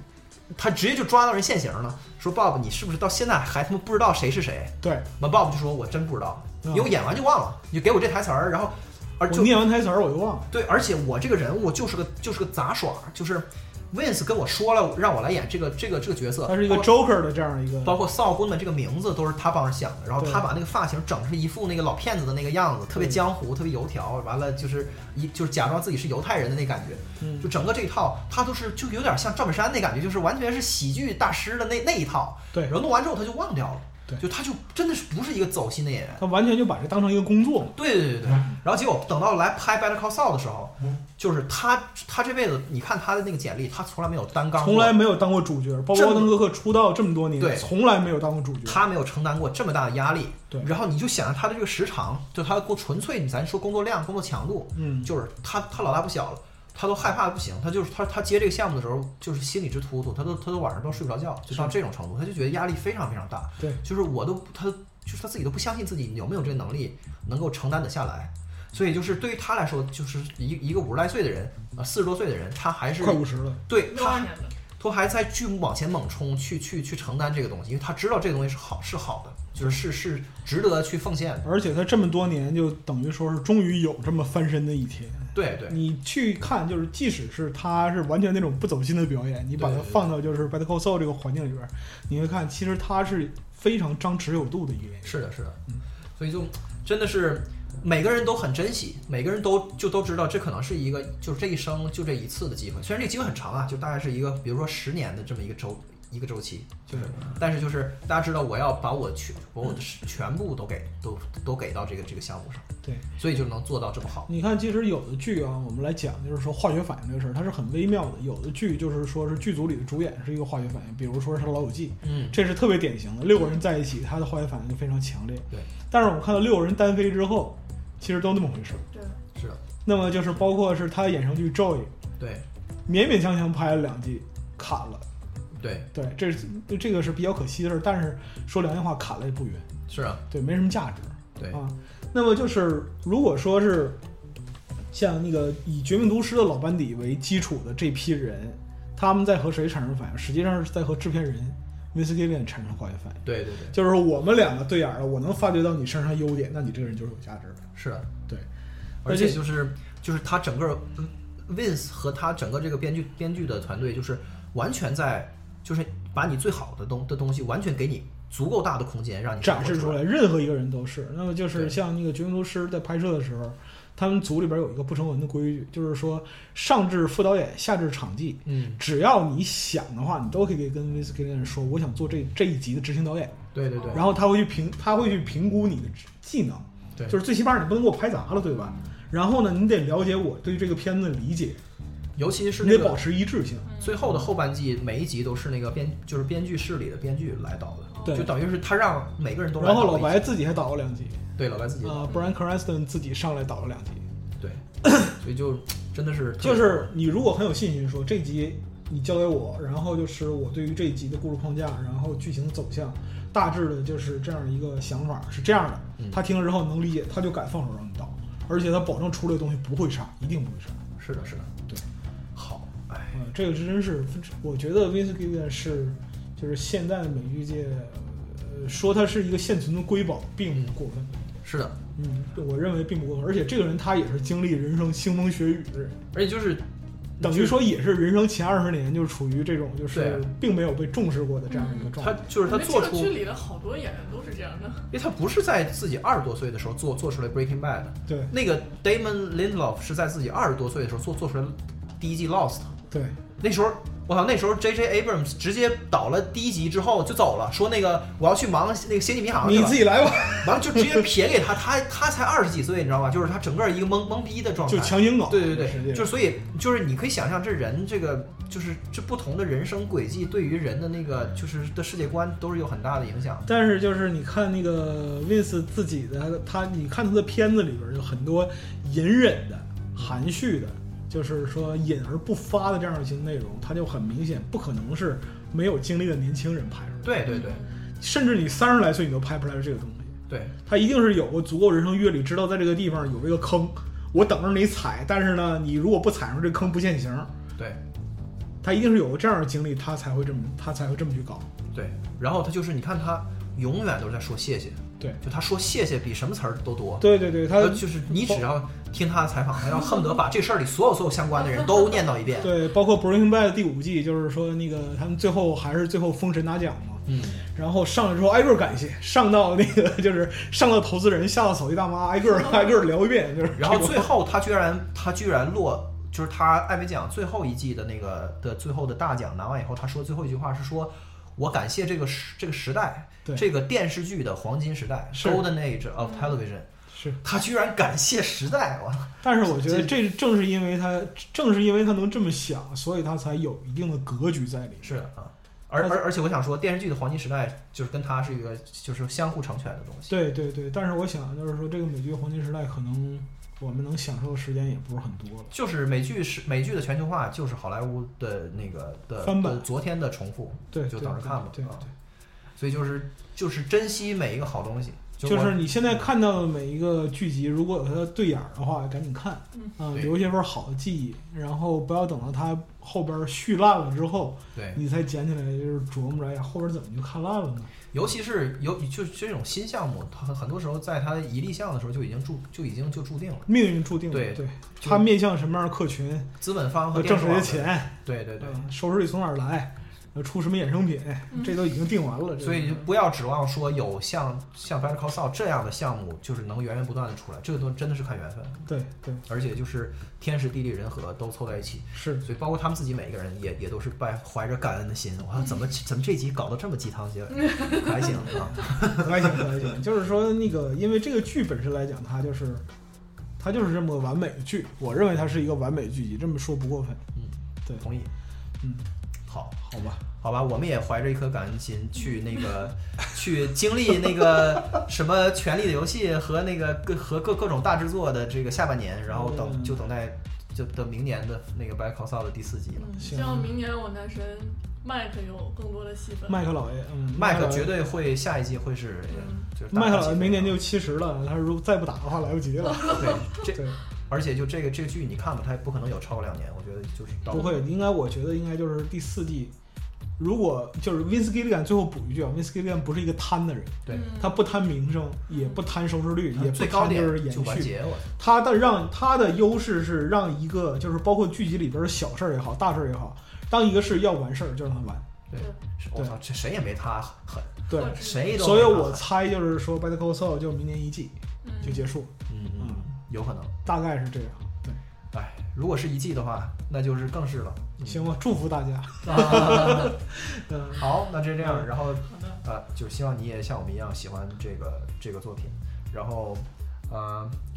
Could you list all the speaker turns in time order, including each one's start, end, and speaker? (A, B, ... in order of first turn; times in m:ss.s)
0:00.5-0:09.5 A
0:04.8-0:05.1 B
0:06.6-0:06.9 B
0:09.3-0:10.5 B
0:10.5-0:16.9 A
0:16.4-0:18.0 B
0:17.8-0:36.2 A
0:20.2-0:20.5 B
0:22.9-0:23.2 B
0:27.2-0:27.5 B
0:36.2-0:37.8 B
0:37.8-0:45.0 A
0:44.6-0:48.8 B
0:45.9-0:46.4 A
0:47.4-0:47.7 A
0:48.6-1:21.5 A
0:54.8-0:55.1 B
1:13.0-1:13.6 B
1:13.8-1:14.5 C
1:21.4-1:35.2 B
1:25.3-1:25.8 A
1:29.6-1:30.0 A
1:35.0-1:35.6 A
1:36.2-1:54.3 A
1:46.9-1:47.2 B
1:54.3-2:08.8 B
2:02.0-2:02.4 A
2:03.4-2:03.6 C
2:08.9-2:09.2 C
2:09.4-2:09.6 A
2:09.8-2:11.9 B
2:12.2-2:12.5 A
2:12.9-2:15.1 B
2:15.6-2:15.9 A
2:15.9-2:19.7 B
2:19.9-2:20.2 A
2:20.3-2:24.0 B
2:24.9-2:37.7 B
2:33.2-2:33.8 A
2:37.8-2:38.1 A
2:39.0-2:50.0 A
2:39.0-2:39.4 B
2:49.4-3:03.4 B
2:58.5-2:58.8 A
3:03.5-3:04.1 A
3:03.8-3:04.2 C
3:03.9-3:11.6 B
3:12.2-3:13.0 A
3:12.6-3:13.7 B
3:13.7-3:14.0 C
3:13.8-3:20.3 A
3:17.9-3:18.3 C
3:18.0-3:18.3 B
3:19.6-3:21.2 B
3:21.4-3:22.2 A
3:21.8-3:24.1 B
3:24.4-3:26.9 A
3:24.8-3:25.1 B
3:26.4-3:40.9 B
3:41.0-3:41.5 A
3:42.4-3:43.2 A
3:43.1-3:51.2 B
3:51.4-3:51.8 A
3:52.0-3:56.0 B
3:56.1-3:56.7 A
3:57.2-3:57.6 A
3:57.2-4:02.2 B
3:59.9-4:00.2 A
4:01.5-4:04.9 C
4:02.0-4:03.2 A
4:04.9-4:12.8 A
4:12.9-4:13.2 B
4:13.4-4:33.5 A
4:19.4-4:21.1 B
4:24.7-4:26.1 B
4:33.5-4:47.4 B
4:47.0-4:47.6 A
4:47.3-4:47.9 C
4:48.0-4:57.3 B
4:50.3-4:50.6 A
4:58.6-5:01.5 B
5:01.7-5:12.5 A
5:07.0-5:08.5 B
5:12.4-5:24.1 B
5:17.1-5:17.4 A
5:23.6-5:36.7 A
5:35.1-5:35.5 B
5:36.0-5:36.3 C
5:36.9-5:37.2 B
5:37.2-5:40.0 A
5:39.2-5:45.0 B
5:44.8-5:50.2 A
5:50.1-5:55.5 B
5:55.5-6:01.9 A
5:59.2-5:59.7 B
6:00.7-6:01.8 B
6:02.6-6:05.6 A
6:05.2-6:17.7 B
6:14.6-6:14.8 A
6:17.9-6:23.5 A
6:23.5-6:26.3 B
6:24.1-6:25.1 A
6:26.4-6:28.6 A
6:26.9-6:32.9 B
6:31.3-6:31.6 C
6:32.4-6:38.7 A
6:38.7-6:39.2 B
6:39.3-6:49.5 A
6:41.9-6:42.2 B
6:47.5-6:47.9 C
6:48.1-6:52.6 B
6:53.4-6:57.0 B
6:57.2-6:58.1 A
6:58.6-6:58.9 B
6:59.3-7:12.9 A
6:59.6-7:00.0 B
7:09.1-7:09.8 B
7:12.8-7:16.4 C
7:13.0-7:13.6 B
7:16.3-7:17.8 B
7:17.1-7:20.6 A
7:19.1-7:19.5 C
7:19.7-7:23.8 B
7:23.0-7:27.5 A
7:27.3-7:29.5 B
7:27.3-7:27.6 C
7:30.2-7:45.1 B
7:33.9-7:34.4 C
7:35.3-7:35.6 C
7:36.3-7:38.1 A
7:45.3-7:49.1 A
7:47.7-7:52.8 B
7:47.7-7:48.3 C
7:51.4-7:51.8 C
7:51.6-7:53.6 A
7:53.6-7:54.8 B
7:55.1-7:58.1 A
7:57.8-8:00.8 B
7:59.0-8:00.0 A
8:00.7-8:07.4 A
8:01.4-8:01.7 B
8:02.1-8:02.4 C